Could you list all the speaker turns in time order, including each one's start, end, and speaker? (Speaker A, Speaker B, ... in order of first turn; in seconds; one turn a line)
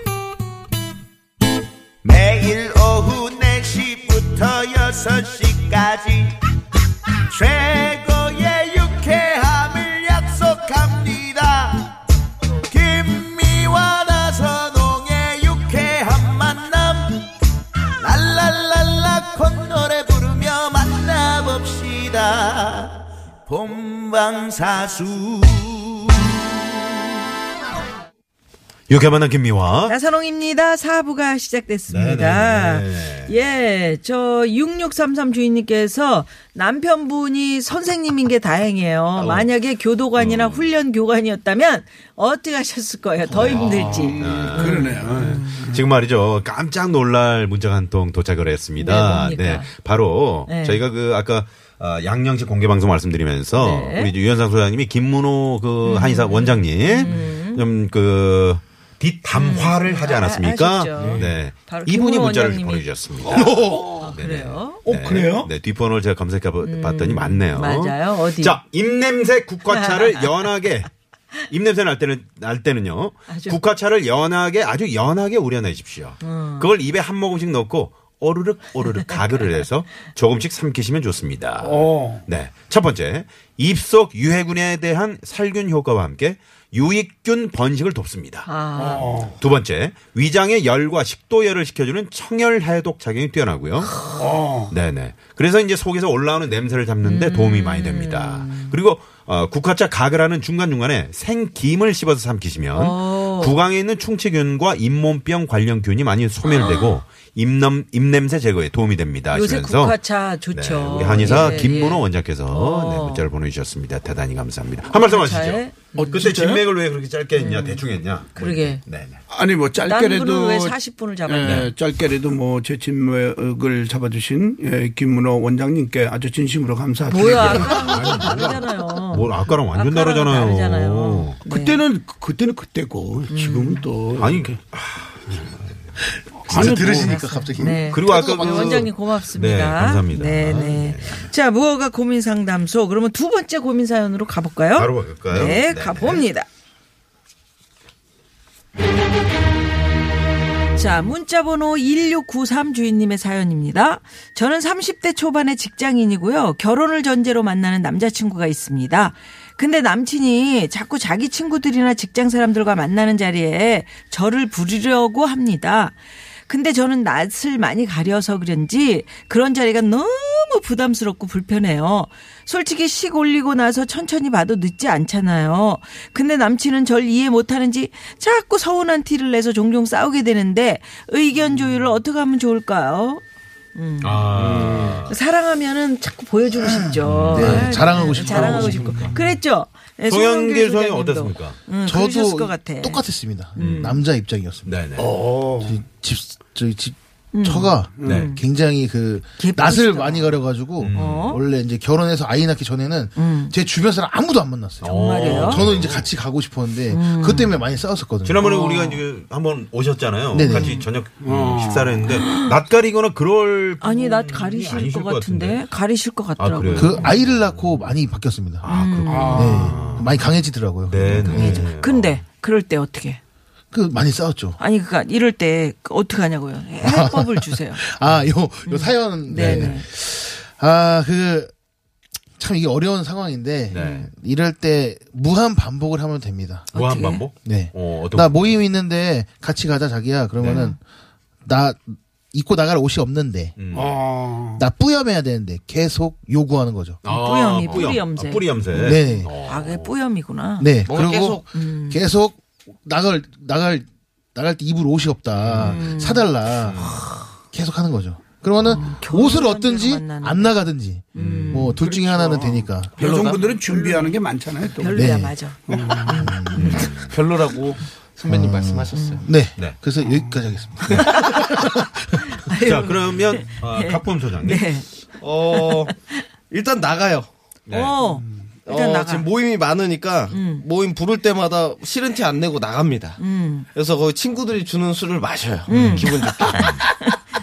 Speaker A: 2.1-3.4
Speaker B: 2.8-6.2
Speaker A: 5.3-6.0
Speaker A: 7.3-11.6
Speaker B: 8.4-9.5
Speaker B: 10.1-11.7
Speaker B: 12.9-16.8
Speaker A: 13.2-17.3
Speaker A: 18.0-20.3
Speaker B: 18.7-22.6
Speaker B: 23.6-26.0
Speaker A: 24.6-25.6
Speaker B: 28.9-30.0
Speaker C: 29.9-45.7
Speaker B: 31.9-33.4
Speaker B: 39.1-39.5
Speaker B: 40.1-40.7
Speaker D: 43.2-45.8
Speaker B: 44.2-63.4
Speaker C: 48.8-49.7
Speaker C: 50.5-50.8
Speaker C: 53.6-54.1
Speaker C: 55.9-57.6
Speaker C: 59.3-62.9
Speaker E: 60.9-61.3
Speaker D: 63.3-64.0
Speaker F: 63.3-63.7
Speaker C: 64.0-64.8
Speaker B: 64.0-70.9
Speaker D: 64.8-65.5
Speaker C: 66.6-68.6
Speaker C: 69.7-70.5
Speaker B: 71.5-88.5
Speaker C: 73.3-73.6
Speaker C: 76.2-76.7
Speaker D: 81.6-82.2
Speaker C: 88.5-89.1
Speaker D: 88.8-89.4
Speaker B: 89.3-94.0
Speaker D: 94.0-94.7
Speaker B: 94.7-119.2
Speaker C: 97.0-98.7
Speaker C: 102.7-103.6
Speaker C: 106.5-107.0
Speaker C: 109.3-113.3
Speaker C: 114.9-116.3
Speaker D: 116.0-116.6
Speaker C: 117.4-118.8
Speaker D: 119.3-128.0
Speaker C: 119.8-121.7
Speaker B: 121.4-121.7
Speaker C: 127.1-131.8
Speaker B: 127.3-131.4
Speaker D: 131.5-134.6
Speaker C: 133.3-133.9
Speaker B: 134.1-135.8
Speaker F: 136.5-138.0
Speaker D: 136.5-137.7
Speaker C: 136.5-146.5
Speaker B: 137.8-141.3
Speaker E: 138.1-138.9
Speaker B: 144.8-146.2
Speaker C: 150.8-183.2
Speaker C: 183.8-184.3
Speaker B: 184.0-185.2
Speaker E: 184.3-185.1
Speaker C: 185.1-193.0
Speaker B: 187.0-187.5
Speaker F: 187.3-188.8
Speaker D: 187.5-187.7
Speaker E: 188.2-189.2
Speaker D: 188.4-189.1
Speaker B: 190.1-191.6
Speaker F: 191.8-194.7
Speaker C: 193.6-194.0
Speaker B: 193.6-194.0
Speaker B: 194.7-195.1
Speaker D: 195.0-195.8
Speaker F: 195.7-208.4
Speaker C: 197.3-198.4
Speaker C: 199.4-200.3
Speaker B: 200.8-201.4
Speaker C: 200.9-201.4
Speaker C: 203.2-203.6
Speaker B: 204.8-206.2
Speaker C: 204.8-205.6
Speaker C: 206.9-207.6
Speaker B: 208.2-215.7
Speaker C: 208.4-209.0
Speaker F: 210.3-210.8
Speaker C: 210.3-210.9
Speaker D: 211.2-212.3
Speaker C: 213.8-217.1
Speaker B: 216.4-217.9
Speaker F: 216.8-218.7
Speaker B: 218.6-220.3
Speaker C: 218.7-219.7
Speaker D: 219.1-219.7
Speaker F: 219.3-221.7
Speaker B: 220.9-222.2
Speaker C: 221.3-223.2
Speaker F: 223.7-224.6
Speaker C: 224.6-227.8
Speaker F: 226.8-231.5
Speaker B: 228.1-228.3
Speaker C: 228.6-229.9
Speaker D: 229.4-229.7
Speaker F: 232.4-236.7
Speaker B: 233.7-234.1
Speaker C: 233.7-234.1
Speaker C: 236.7-237.3
Speaker B: 236.7-238.7
Speaker F: 237.4-240.8
Speaker C: 240.4-240.8
Speaker F: 241.4-243.6
Speaker B: 243.6-244.0
Speaker D: 243.7-244.6
Speaker F: 244.5-247.0
Speaker B: 247.0-249.9
Speaker C: 247.1-250.7
Speaker F: 248.8-249.3
Speaker F: 250.6-256.9
Speaker E: 250.9-251.5
Speaker C: 251.5-252.0
Speaker B: 255.3-255.8
Speaker C: 255.6-256.3
Speaker B: 256.6-257.1
Speaker F: 257.5-263.0
Speaker C: 258.6-260.6
Speaker C: 261.1-262.0
Speaker B: 261.2-261.8
Speaker D: 261.8-265.1
Speaker E: 263.0-263.5
Speaker C: 263.5-264.2
Speaker C: 264.8-266.9
Speaker F: 264.9-265.4
Speaker D: 265.7-266.4
Speaker F: 266.1-266.9
Speaker B: 266.6-267.2
Speaker E: 266.7-269.3
Speaker F: 268.3-272.3
Speaker C: 268.9-269.2
Speaker B: 269.6-269.8
Speaker C: 270.9-271.6
Speaker C: 272.2-274.9
Speaker B: 272.5-274.7
Speaker E: 275.2-275.9
Speaker C: 275.5-276.2
Speaker E: 276.5-277.3
Speaker B: 277.7-278.0
Speaker C: 277.7-279.3
Speaker D: 278.1-278.3
Speaker E: 278.6-283.2
Speaker C: 280.3-280.7
Speaker C: 283.2-283.7
Speaker E: 283.7-286.8
Speaker C: 285.7-287.2
Speaker B: 285.7-286.1